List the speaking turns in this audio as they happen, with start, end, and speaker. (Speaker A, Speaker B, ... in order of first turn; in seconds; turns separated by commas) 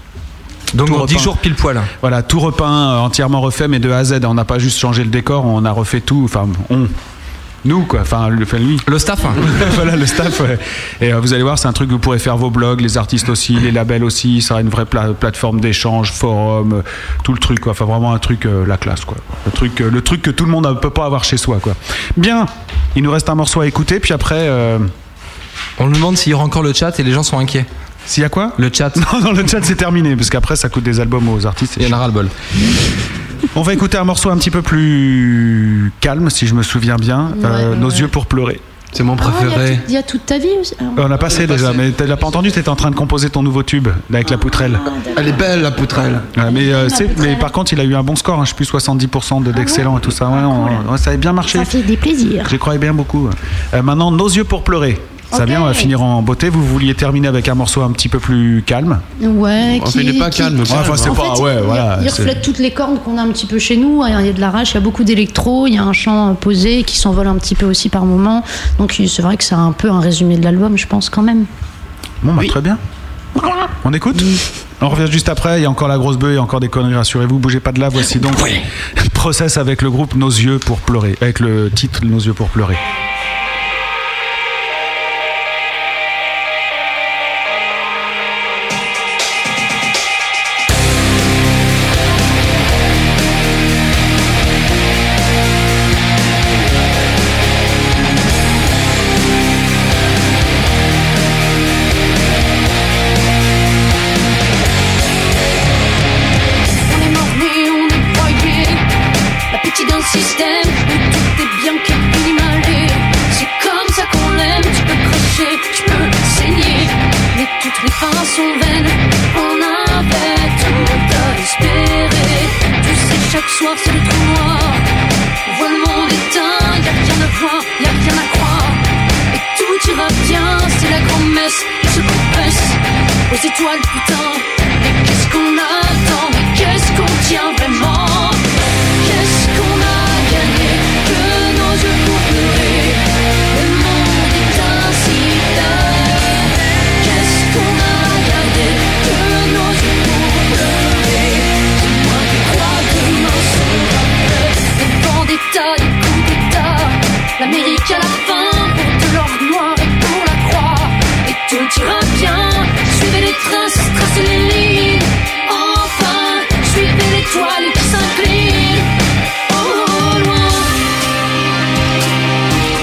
Speaker A: 0.7-1.9, Speaker B: 0.8-1.4, Speaker B: 2.0-6.9, Speaker B: 7.6-24.9, Speaker A: 8.9-9.6, Speaker A: 25.8-27.7, Speaker B: 28.1-32.0, Speaker A: 28.6-29.0, Speaker A: 31.8-32.3, Speaker B: 33.5-38.6, Speaker C: 37.3-38.1, Speaker D: 38.9-39.9, Speaker C: 39.2-41.1, Speaker B: 41.0-44.9, Speaker D: 41.3-41.9, Speaker C: 44.4-45.4, Speaker D: 45.1-46.3, Speaker B: 46.4-51.7, Speaker C: 46.5-47.5, Speaker C: 49.5-50.9, Speaker C: 51.5-52.6, Speaker B: 52.5-59.0, Speaker C: 55.3-55.9, Speaker C: 59.2-71.5, Speaker D: 59.7-61.2, Speaker B: 60.7-62.4, Speaker B: 72.2-72.8, Speaker B: 73.8-82.8, Speaker E: 106.9-108.8, Speaker E: 109.5-124.8, Speaker E: 125.5-138.5, Speaker E: 139.0-168.9, Speaker E: 169.5-170.8